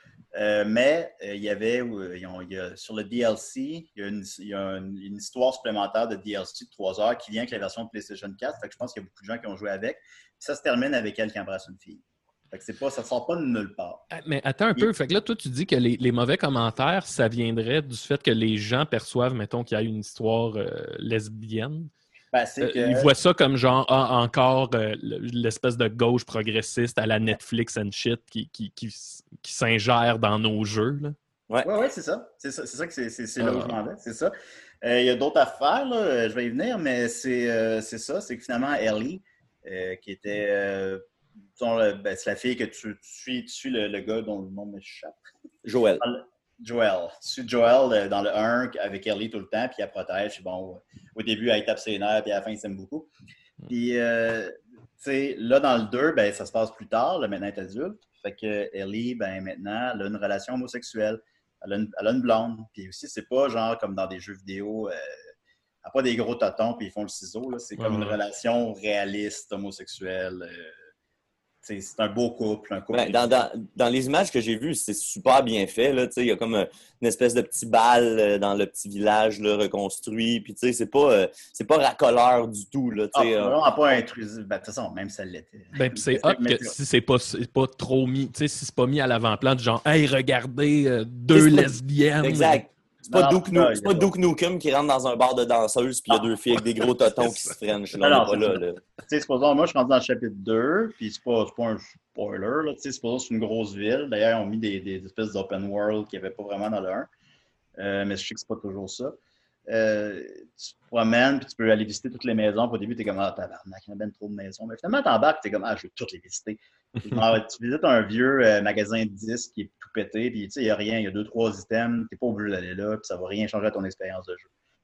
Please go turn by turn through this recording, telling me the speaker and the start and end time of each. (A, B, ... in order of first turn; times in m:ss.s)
0:00.3-0:14.0 A
0:14.1-0:21.9 B
0:22.3-0:23.1 A
0:22.6-0:31.2 B
0:31.6-0:34.3 A
0:33.4-0:33.8 C
0:34.8-0:41.0 A
0:41.6-0:45.2 A
0:45.6-0:46.0 C
0:46.0-0:53.1 A
0:53.7-1:05.0 A
1:05.8-1:10.7 A
1:07.8-1:08.2 B
1:11.6-1:13.4 A
1:12.9-1:23.6 C
1:23.2-1:26.7 A
1:25.7-1:32.6 B
1:31.4-1:38.8 C
1:33.1-1:34.1 A
1:37.2-1:37.6 B
1:38.0-1:47.1 A
1:47.8-1:49.2 A
1:49.7-2:04.5 A